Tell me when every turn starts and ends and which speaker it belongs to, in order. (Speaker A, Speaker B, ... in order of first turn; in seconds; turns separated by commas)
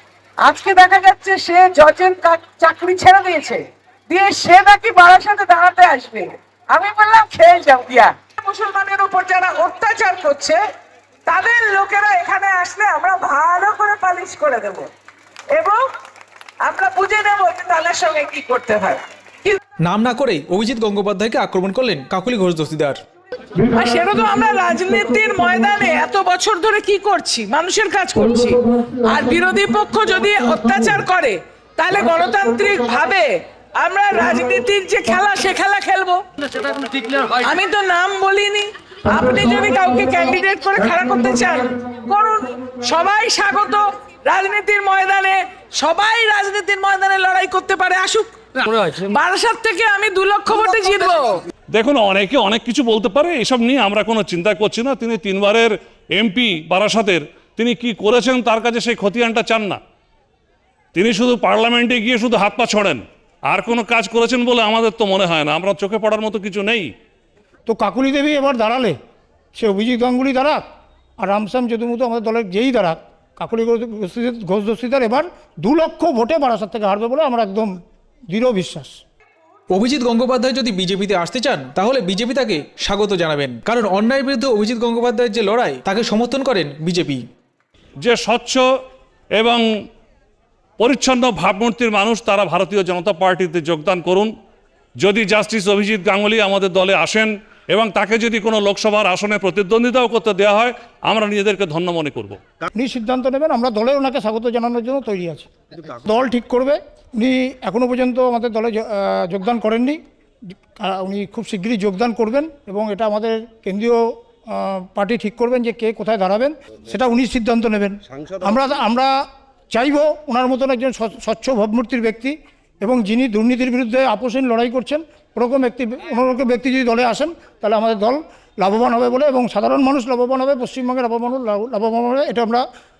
Speaker A: 0.4-10.6, Speaker A: 11.3-14.9, Speaker A: 15.5-15.8, Speaker A: 16.6-19.6, Speaker B: 19.8-23.0, Speaker A: 23.6-36.2, Speaker A: 37.0-51.4, Speaker C: 51.7-59.8, Speaker C: 60.9-66.9, Speaker D: 67.7-69.0, Speaker D: 69.5-70.6, Speaker D: 71.2-77.8, Speaker D: 78.3-79.0, Speaker B: 79.7-87.2, Speaker C: 88.0-88.6, Speaker C: 89.3-89.6, Speaker C: 90.8-94.3, Speaker C: 95.0-102.4, Speaker D: 102.7-110.0, Speaker D: 110.8-119.2, Speaker D: 119.7-132.6